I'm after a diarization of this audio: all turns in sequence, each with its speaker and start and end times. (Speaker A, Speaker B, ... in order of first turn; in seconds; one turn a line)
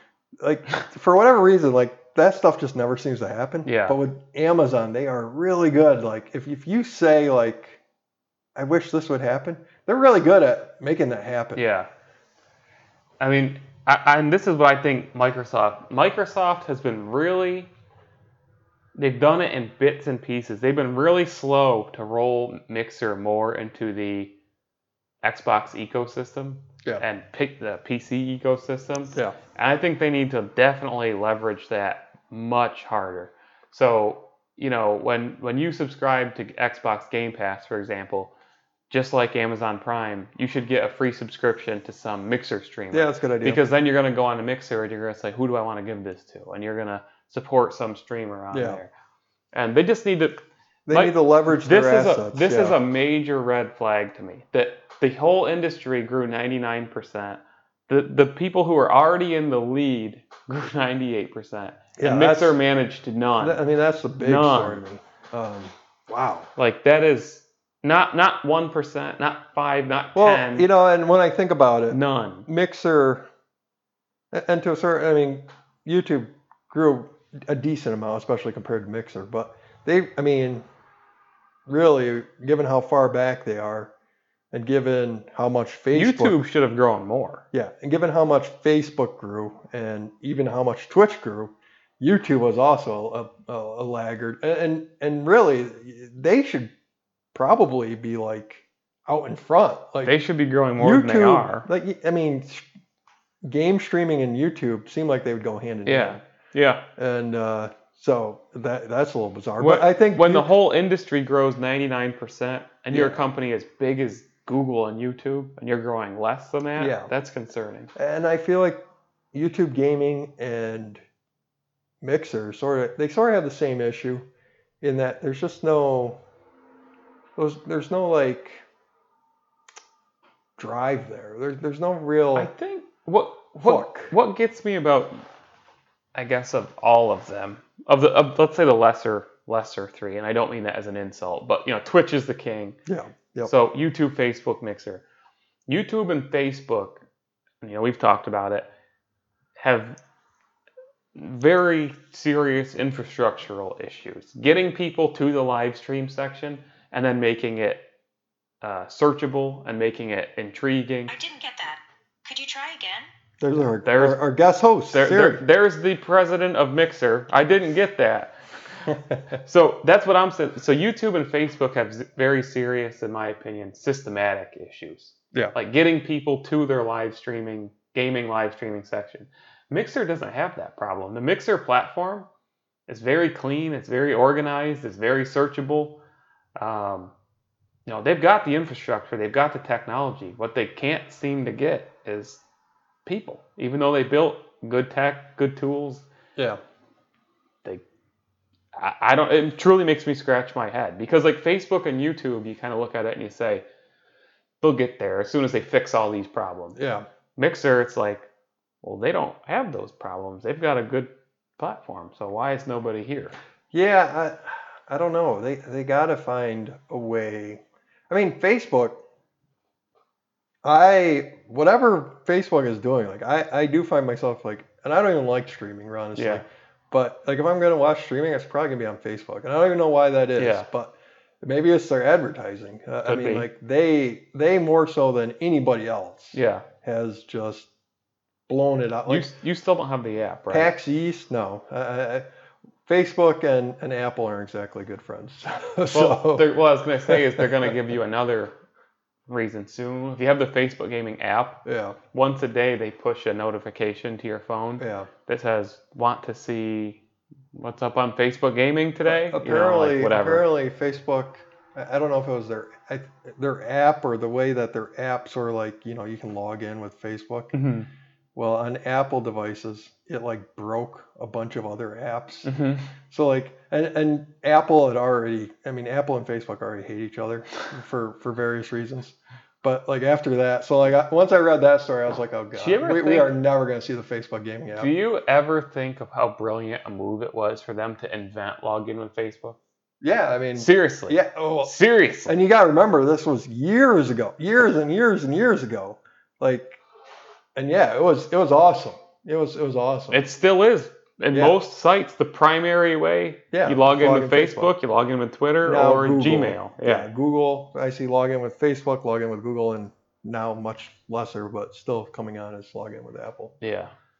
Speaker A: 0.4-7.8
Speaker B: 3.6-4.0
Speaker A: 8.6-11.6
Speaker B: 11.6-11.9
Speaker B: 13.2-17.7
Speaker B: 19.0-24.4
Speaker B: 25.2-38.3
Speaker B: 38.9-48.9
Speaker A: 42.9-43.6
Speaker A: 48.5-48.8
Speaker B: 49.5-63.6
Speaker A: 50.9-52.8
Speaker A: 62.0-62.6
Speaker A: 63.4-66.5
Speaker B: 64.2-64.8
Speaker B: 66.6-70.7
Speaker A: 70.2-73.3
Speaker B: 71.9-72.5
Speaker A: 74.3-80.7
Speaker A: 81.7-83.9
Speaker A: 84.5-86.4
Speaker B: 85.9-87.4
Speaker A: 87.5-96.7
Speaker A: 97.3-100.2
Speaker B: 100.0-101.7
Speaker A: 100.8-102.7
Speaker A: 103.4-106.2
Speaker B: 105.9-106.8
Speaker A: 107.0-110.5
Speaker B: 109.6-117.9
Speaker A: 112.9-113.2
Speaker A: 116.8-117.1
Speaker A: 118.0-118.8
Speaker A: 119.3-121.0
Speaker A: 122.0-124.3
Speaker A: 124.8-126.2
Speaker A: 127.4-128.7
Speaker A: 130.6-132.5
Speaker B: 132.3-135.2
Speaker A: 133.6-134.1
Speaker B: 136.2-142.8
Speaker A: 142.9-143.5
Speaker B: 143.4-145.0
Speaker B: 145.7-147.0
Speaker B: 147.6-148.7
Speaker B: 149.6-150.0
Speaker B: 151.2-157.9
Speaker B: 158.6-161.2
Speaker C: 161.1-163.1
Speaker A: 163.4-165.4
Speaker B: 163.8-164.2
Speaker B: 164.9-168.4
Speaker A: 168.9-169.2
Speaker B: 169.4-182.3
Speaker B: 182.9-186.0
Speaker B: 186.6-187.1
Speaker B: 187.9-192.4
Speaker B: 193.1-196.1
Speaker B: 198.8-203.7
Speaker B: 204.6-206.8
Speaker A: 206.8-207.1
Speaker B: 207.4-208.3
Speaker B: 208.8-213.3
Speaker A: 213.7-219.0
Speaker A: 220.6-237.7
Speaker B: 226.2-226.4
Speaker B: 230.4-230.7
Speaker B: 233.1-233.5
Speaker B: 236.3-236.7
Speaker A: 238.5-239.3
Speaker B: 239.1-240.7
Speaker A: 240.5-242.3
Speaker A: 242.9-246.5
Speaker B: 245.9-248.6
Speaker A: 247.0-247.7
Speaker B: 249.3-257.0
Speaker A: 251.7-252.0
Speaker A: 254.8-255.1
Speaker B: 257.5-260.5
Speaker A: 259.1-267.6
Speaker B: 267.5-267.9
Speaker A: 268.4-272.5
Speaker B: 272.4-272.9
Speaker A: 273.1-284.9
Speaker B: 282.6-283.3
Speaker B: 284.8-289.6
Speaker A: 290.0-291.7
Speaker B: 290.6-292.4
Speaker A: 292.3-296.8
Speaker A: 297.6-300.2
Speaker B: 300.1-307.1
Speaker A: 303.5-304.7
Speaker A: 305.6-313.6
Speaker B: 313.6-313.9